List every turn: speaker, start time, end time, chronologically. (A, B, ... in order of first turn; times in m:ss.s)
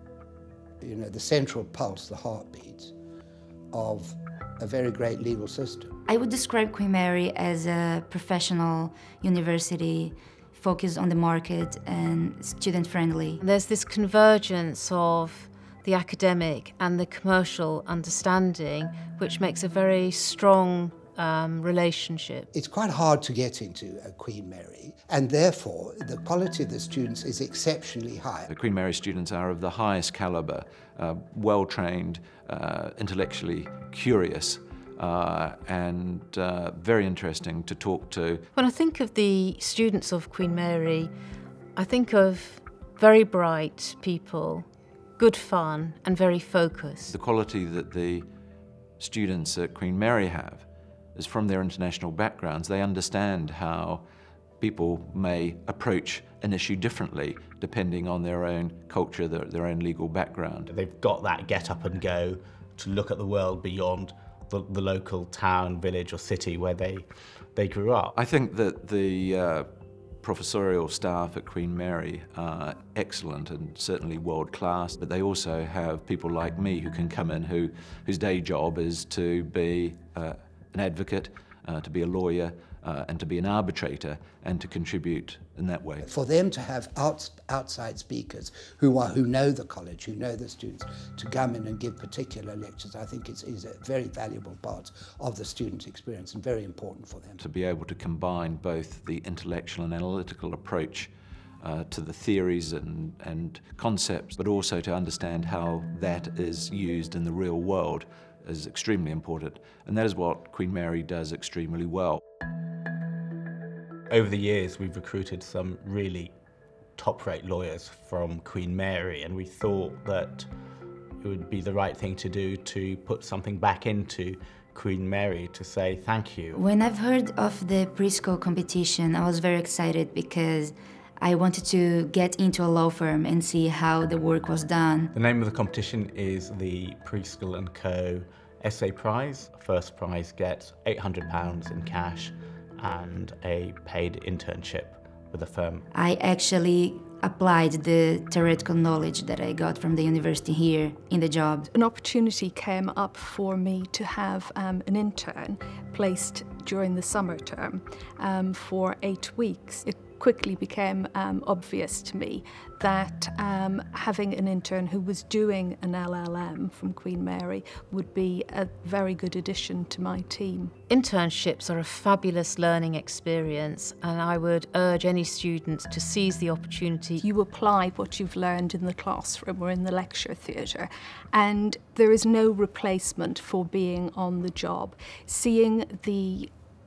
0:00.8-0:02.9 A
0:03.7-0:05.9 A
0:06.1-0:13.4 B
0:13.4-0:22.5 C
0:22.5-0:28.5 A
0:28.5-0:38.4 D
0:38.6-0:41.1 C
0:41.8-0:44.6 C
0:45.2-0:47.1 C
0:47.1-0:48.3 D
0:49.0-0:54.0 D
0:54.6-1:00.7 D
1:00.7-1:08.1 E
1:08.1-1:09.7 D
1:10.2-1:26.1 D
1:26.0-1:37.4 A
1:37.4-1:52.2 D
1:54.1-1:56.3 E
1:57.0-2:00.5 E
2:01.2-2:06.6 E
2:06.5-2:15.1 B
2:15.1-2:25.8 E
2:25.9-2:31.7 B
2:31.8-2:50.6 F
2:50.9-2:57.2 C
2:57.2-3:06.4 F